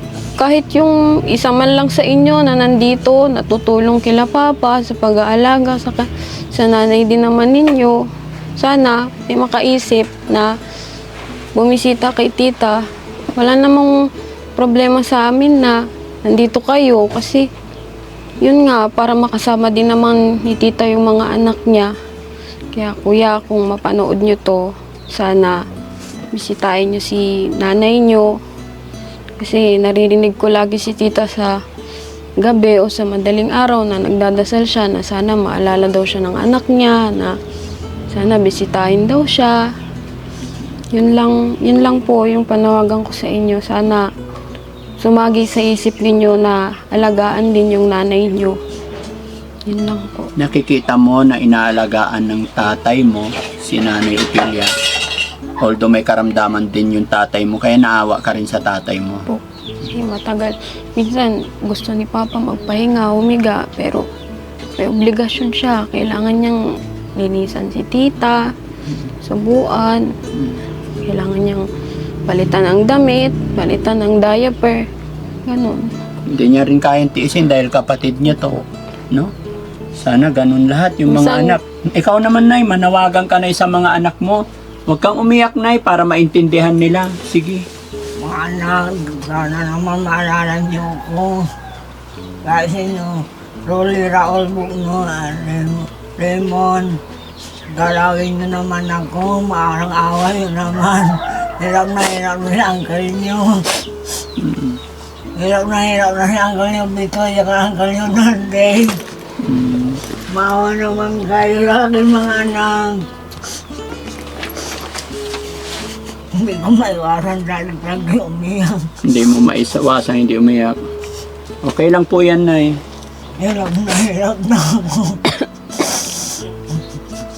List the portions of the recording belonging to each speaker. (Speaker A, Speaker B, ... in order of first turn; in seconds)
Speaker A: 0.4-8.0, 8.6-10.5, 11.5-12.8, 13.3-13.9, 14.6-17.5, 18.4-21.9, 22.7-25.6, 26.3-28.3, 29.4-31.5, 32.4-37.4, 38.1-39.6, 40.9-44.0, 45.0-48.6, 49.6-50.3, 59.3-64.0, 64.8-66.6, 67.2-68.4, 69.2-70.1, 71.1-71.7, 72.3-74.9, 75.5-75.9, 81.1-81.6
Speaker B: 50.4-54.7, 55.6-59.2, 68.9-69.1, 76.2-79.3, 80.0-87.6, 104.4-104.8, 109.4-110.0, 119.0-120.8, 121.6-122.8
Speaker C: 88.2-91.5, 92.4-97.0, 97.7-103.8, 105.3-109.0, 110.3-113.0, 116.3-118.9, 123.4-126.3